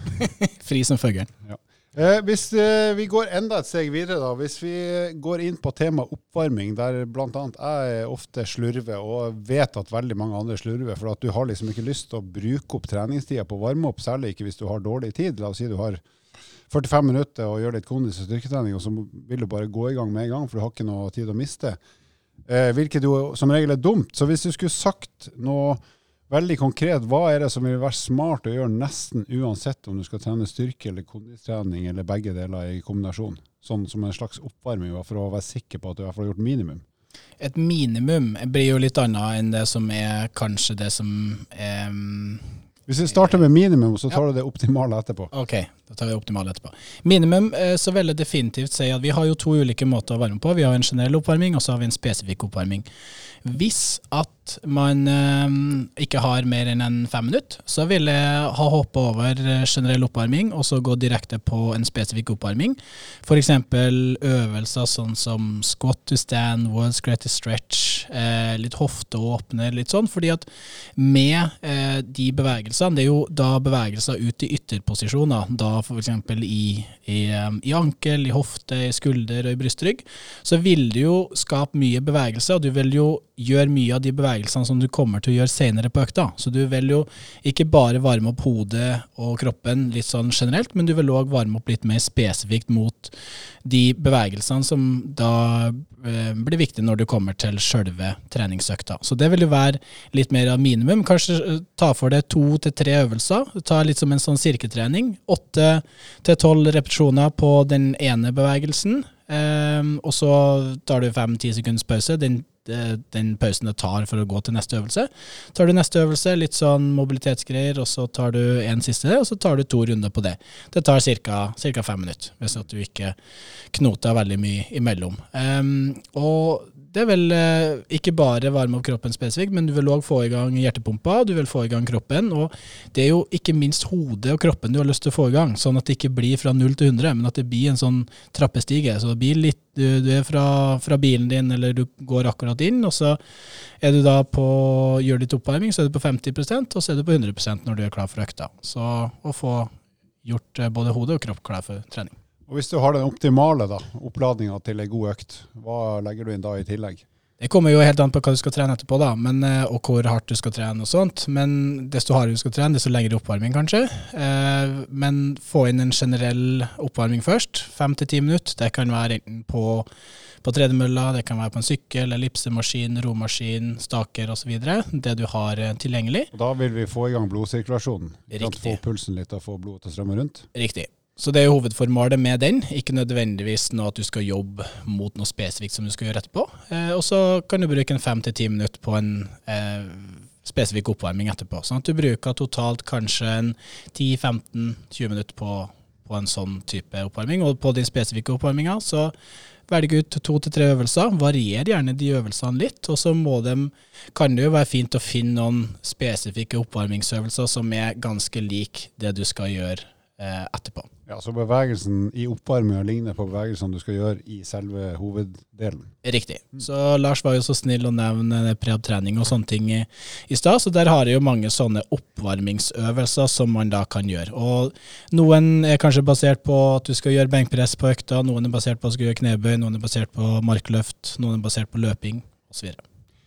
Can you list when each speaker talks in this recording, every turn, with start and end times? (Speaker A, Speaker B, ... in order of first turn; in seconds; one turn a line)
Speaker A: 0.2-1.3
Speaker B: 1.4-16.0
Speaker B: 16.7-21.8
Speaker B: 22.5-36.8
Speaker A: 37.4-42.5
Speaker B: 42.9-45.3
Speaker A: 45.3-52.9
Speaker A: 53.4-123.2
Speaker A: 123.7-143.2
Speaker A: 143.8-149.7
Speaker A: 150.2-152.1
Speaker B: 152.5-157.0
Speaker A: 157.4-169.9
Speaker A: 170.4-176.3
Speaker B: 176.3-180.5
Speaker A: 178.3-178.8
Speaker A: 180.5-199.1
Speaker A: 199.7-210.9
Speaker B: 211.1-215.9
Speaker A: 216.0-232.8